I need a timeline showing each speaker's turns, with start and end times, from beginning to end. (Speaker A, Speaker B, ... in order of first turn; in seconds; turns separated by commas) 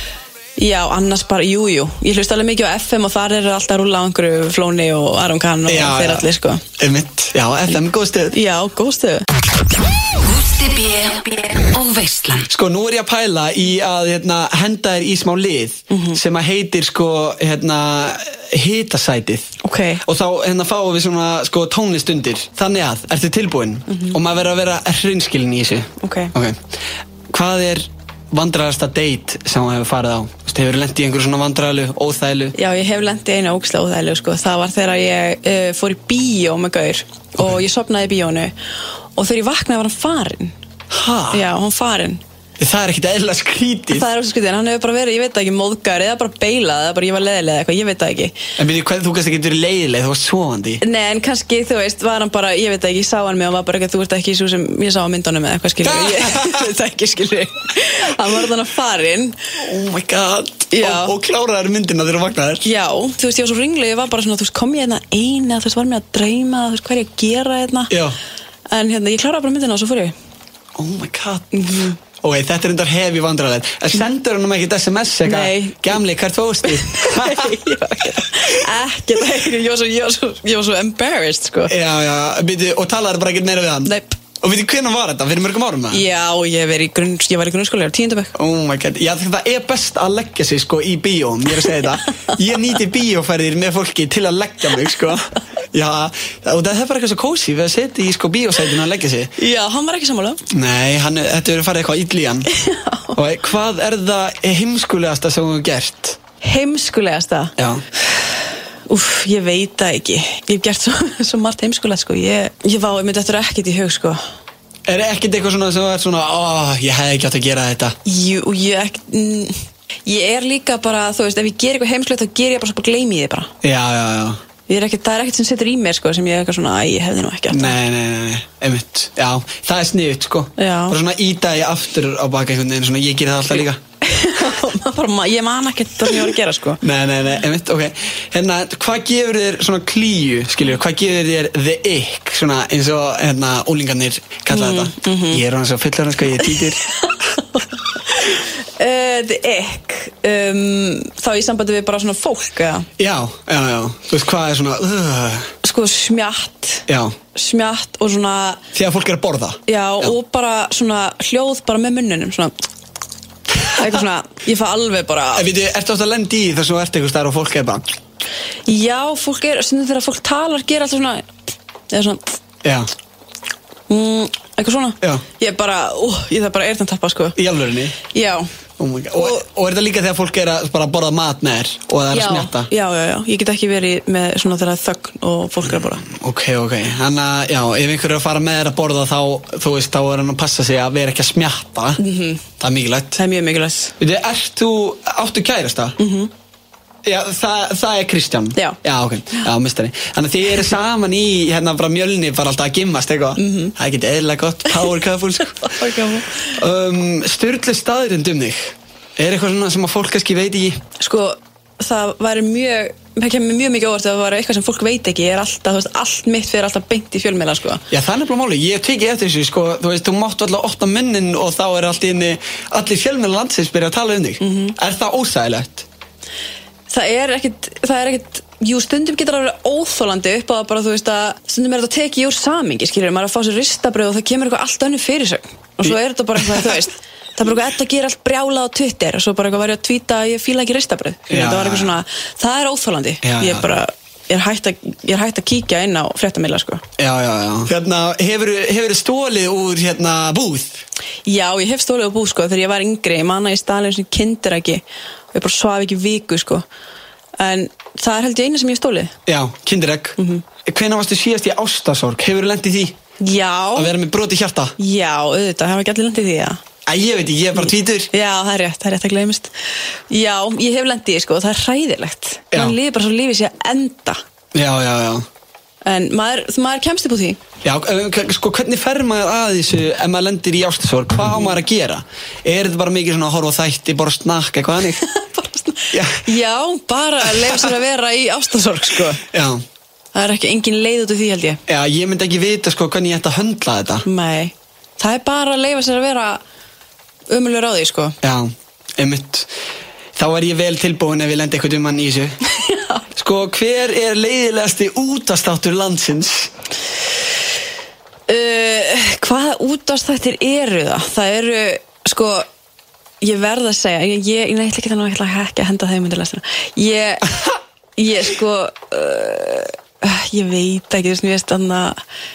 Speaker A: 0.6-6.6, Speaker B: 5.7-6.3, Speaker B: 6.8-8.4, Speaker A: 8.3-9.3, Speaker C: 10.2-12.5, Speaker B: 12.5-26.6, Speaker A: 15.9-16.2, Speaker A: 19.6-20.0, Speaker A: 23.9-24.2, Speaker A: 26.0-26.3, Speaker B: 27.3-32.5, Speaker A: 32.6-38.5, Speaker A: 39.2-40.5, Speaker B: 40.9-41.5, Speaker A: 41.3-42.2, Speaker B: 42.6-44.0, Speaker A: 43.9-48.4, Speaker B: 48.6-50.8, Speaker A: 50.8-59.4, Speaker B: 55.8-56.7, Speaker B: 59.6-62.7, Speaker A: 60.7-61.1, Speaker A: 62.6-67.9, Speaker B: 67.9-68.2, Speaker A: 68.7-70.2, Speaker B: 70.8-77.6, Speaker A: 71.5-72.0, Speaker A: 75.2-76.0, Speaker A: 76.7-81.7, Speaker B: 81.7-86.0, Speaker A: 83.9-84.2, Speaker A: 85.9-88.3, Speaker B: 88.3-99.3, Speaker A: 99.4-100.4, Speaker B: 100.5-102.5, Speaker A: 102.5-103.2, Speaker B: 103.2-106.2, Speaker A: 106.4-107.5, Speaker B: 107.6-107.8, Speaker A: 108.9-114.2, Speaker B: 114.9-118.0, Speaker A: 118.1-123.5, Speaker B: 123.6-124.4, Speaker A: 124.7-127.8, Speaker B: 127.5-133.8, Speaker A: 130.6-131.0, Speaker A: 134.0-136.8, Speaker B: 136.8-146.9, Speaker A: 144.5-145.4, Speaker A: 146.5-147.1, Speaker A: 148.1-152.9, Speaker B: 153.0-155.5, Speaker A: 155.6-158.6, Speaker B: 156.9-157.2, Speaker B: 158.7-160.1, Speaker A: 159.7-162.5, Speaker B: 163.6-163.9, Speaker A: 163.8-165.5, Speaker B: 165.3-167.8, Speaker A: 168.7-171.3, Speaker A: 171.9-172.4, Speaker B: 172.6-172.9, Speaker A: 173.9-177.4, Speaker B: 177.4-178.0, Speaker A: 178.1-178.5, Speaker B: 178.8-182.7, Speaker A: 179.2-179.4, Speaker A: 182.1-186.0, Speaker B: 186.0-192.0, Speaker A: 192.0-192.4, Speaker B: 192.6-193.2, Speaker A: 193.2-193.9, Speaker B: 194.0-196.0, Speaker A: 196.0-196.3, Speaker B: 197.1-205.9, Speaker A: 203.4-203.7, Speaker A: 205.6-206.6, Speaker B: 206.5-210.8, Speaker A: 211.0-217.8, Speaker B: 217.9-225.9, Speaker A: 224.4-224.8, Speaker A: 226.9-246.8, Speaker B: 241.3-242.0, Speaker B: 243.2-243.7, Speaker B: 247.0-250.8, Speaker A: 251.3-256.6, Speaker A: 257.4-259.1, Speaker B: 259.3-263.0, Speaker A: 260.2-260.4, Speaker A: 263.2-263.9, Speaker B: 263.8-264.8, Speaker A: 264.8-266.6, Speaker B: 266.9-268.1, Speaker A: 267.6-269.5, Speaker A: 270.1-274.2, Speaker B: 274.6-275.3, Speaker A: 275.9-277.4, Speaker B: 277.6-285.0, Speaker A: 285.0-289.2, Speaker B: 285.9-286.2, Speaker B: 287.4-287.7, Speaker B: 289.2-289.6, Speaker A: 290.1-291.6, Speaker B: 291.7-294.1, Speaker A: 294.1-296.4, Speaker A: 297.3-298.2, Speaker B: 298.2-299.5, Speaker B: 300.2-302.4, Speaker A: 302.6-303.0, Speaker B: 303.2-306.5, Speaker A: 308.3-312.5, Speaker A: 313.2-317.3, Speaker A: 318.0-322.0